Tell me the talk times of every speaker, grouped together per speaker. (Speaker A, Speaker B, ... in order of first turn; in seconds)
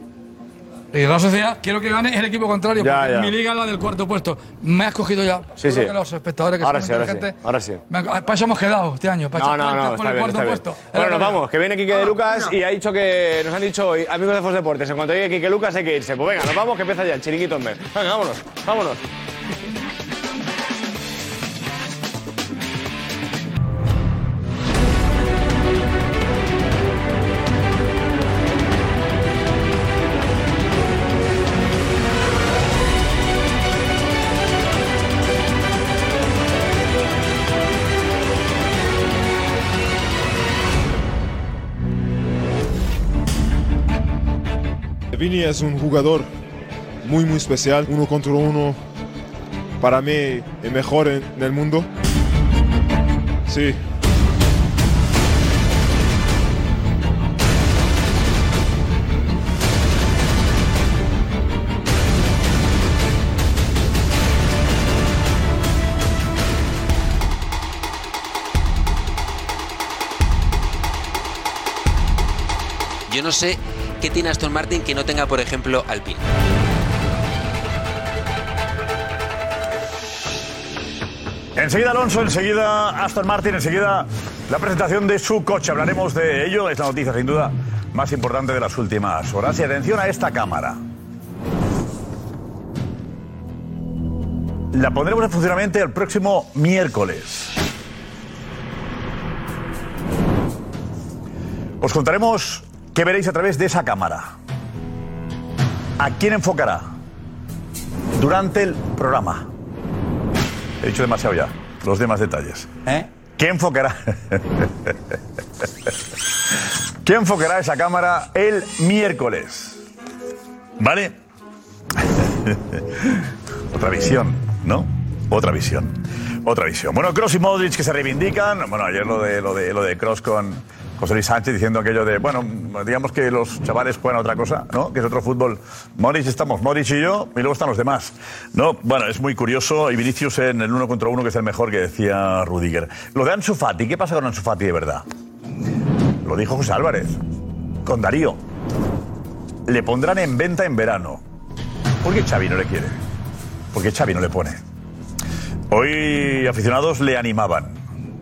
Speaker A: 0.9-7.3, 7.9-11.4
Speaker B: 2.8-3.3, 5.6-5.9, 6.6-7.8, 9.3-19.0
Speaker C: 45.1-46.3, 47.0-48.8, 49.8-51.9, 53.5-53.8
Speaker D: 73.1-76.2
Speaker E: 81.5-90.8, 94.7-97.5, 101.8-104.3, 106.0-106.9, 108.1-109.5, 110.8-114.9, 117.0-119.8, 120.8-121.2, 122.0-145.0, 146.2-147.2, 147.8-148.4, 149.7-151.2, 152.0-153.0, 153.7-154.6, 155.7-157.8